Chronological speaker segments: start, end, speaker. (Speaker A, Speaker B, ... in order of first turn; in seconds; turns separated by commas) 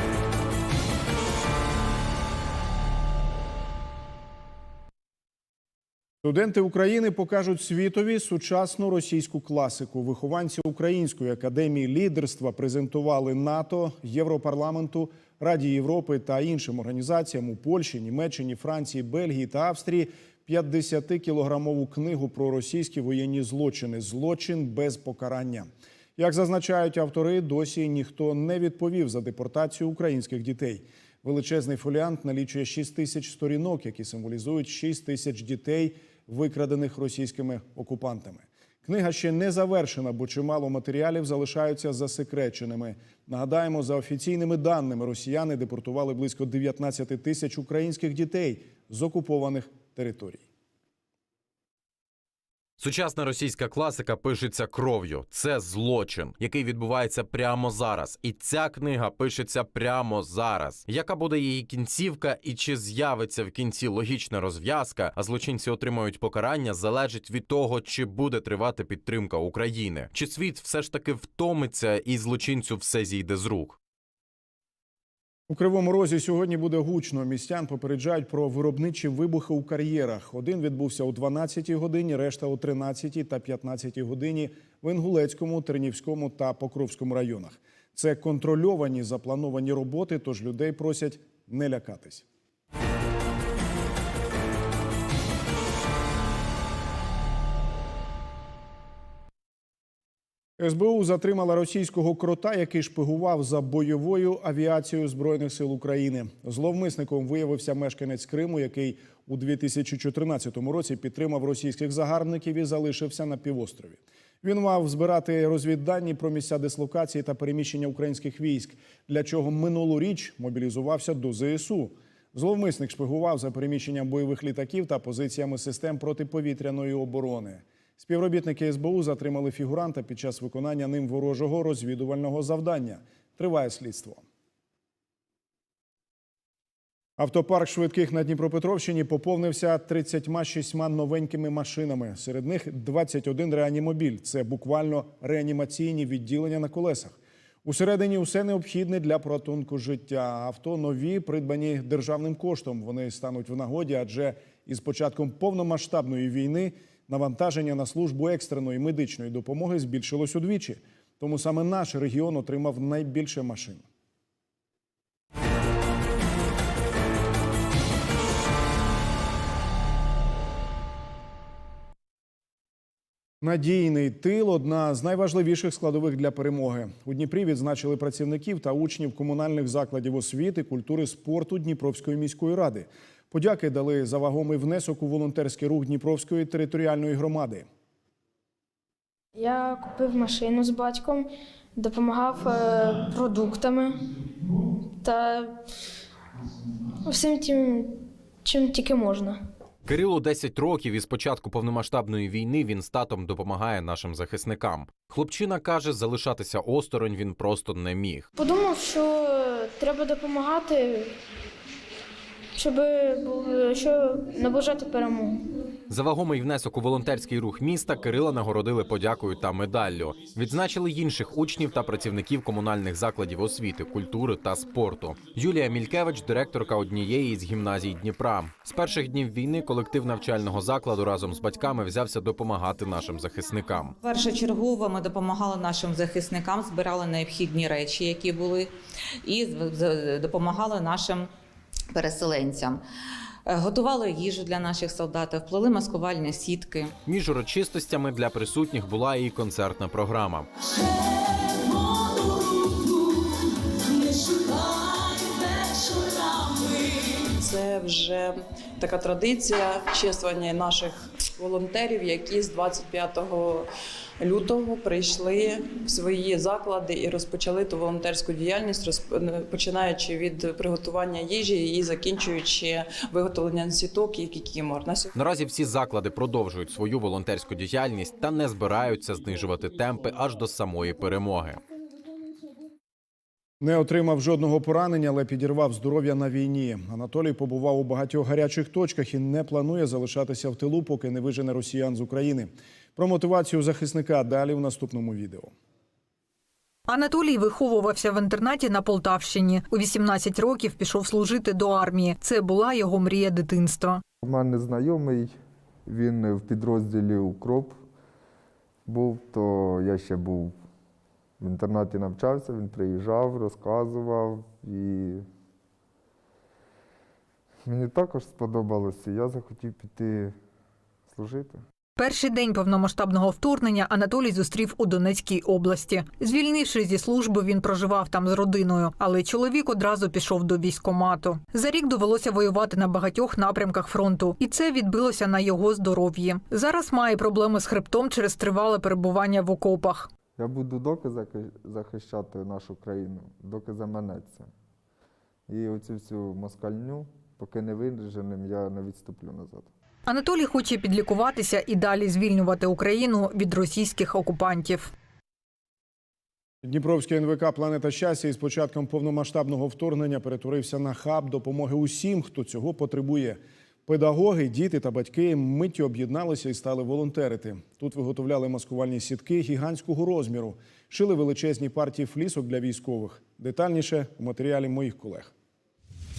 Speaker A: 6.2-50.4, Speaker B: 52.8-73.8, Speaker A: 75.5-92.2, Speaker A: 100.6-134.2, Speaker A: 137.2-147.1, Speaker A: 147.6-163.8, Speaker A: 173.4-187.7, Speaker C: 189.3-194.2, Speaker C: 195.0-195.5, Speaker C: 197.0-197.9, Speaker C: 198.4-199.4, Speaker B: 199.8-208.3, Speaker C: 208.3-211.1, Speaker C: 212.6-215.4, Speaker B: 215.9-234.0, Speaker D: 234.0-238.7, Speaker D: 239.2-241.3, Speaker D: 241.9-242.8, Speaker D: 243.4-246.9, Speaker B: 247.1-250.5, Speaker E: 251.7-253.1, Speaker E: 254.0-263.7, Speaker E: 264.2-275.4, Speaker B: 275.1-281.6, Speaker A: 283.6-295.5, Speaker F: 296.9-304.0, Speaker G: 304.2-305.3, Speaker G: 305.9-307.8, Speaker G: 308.9-310.6, Speaker G: 311.4-315.2, Speaker G: 317.6-320.3, Speaker G: 321.1-321.6, Speaker F: 321.9-340.1, Speaker G: 340.4-344.5, Speaker G: 345.5-349.7, Speaker F: 350.1-354.9, Speaker A: 356.6-375.3